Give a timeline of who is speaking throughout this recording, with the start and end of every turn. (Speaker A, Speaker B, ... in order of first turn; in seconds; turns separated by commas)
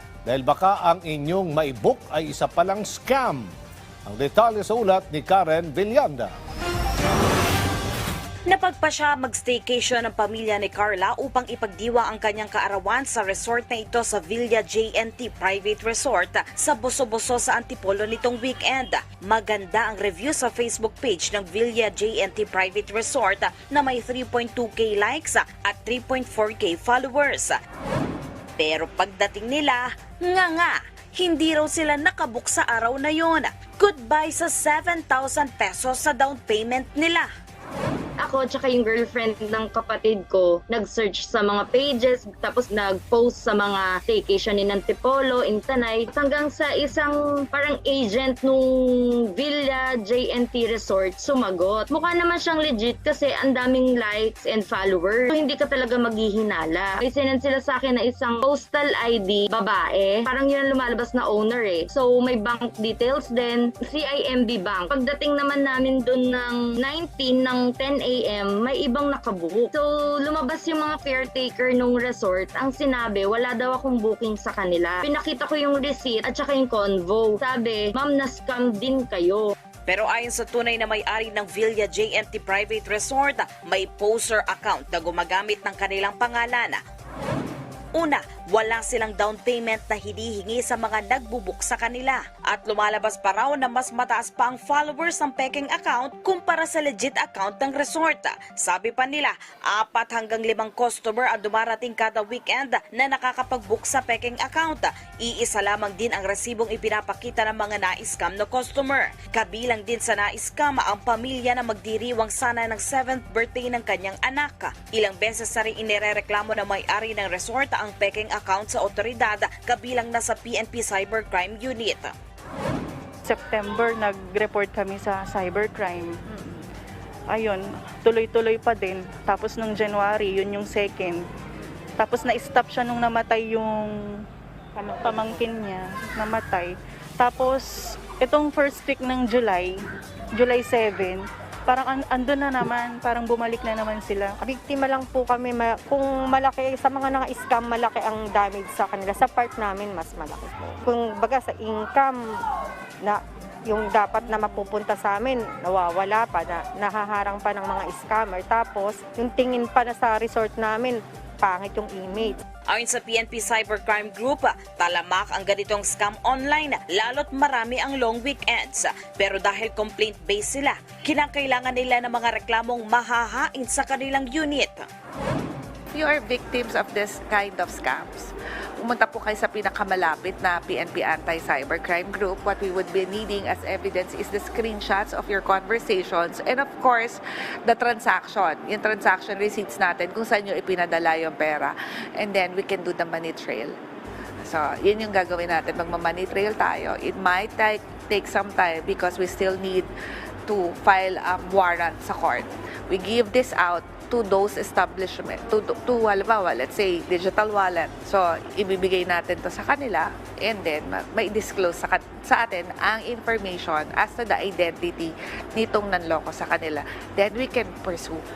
Speaker A: 0.3-3.5, Speaker A: 4.0-6.3, Speaker B: 8.5-27.6, Speaker B: 28.6-37.3, Speaker C: 38.2-79.5, Speaker B: 79.9-86.8, Speaker B: 88.0-122.1, Speaker D: 123.2-126.5, Speaker D: 127.3-131.2, Speaker D: 132.0-134.2, Speaker E: 134.8-135.4, Speaker D: 135.0-144.3, Speaker E: 144.4-152.2, Speaker E: 153.0-162.4, Speaker B: 162.7-174.9, Speaker F: 175.9-193.8, Speaker F: 194.4-199.9, Speaker F: 200.5-218.2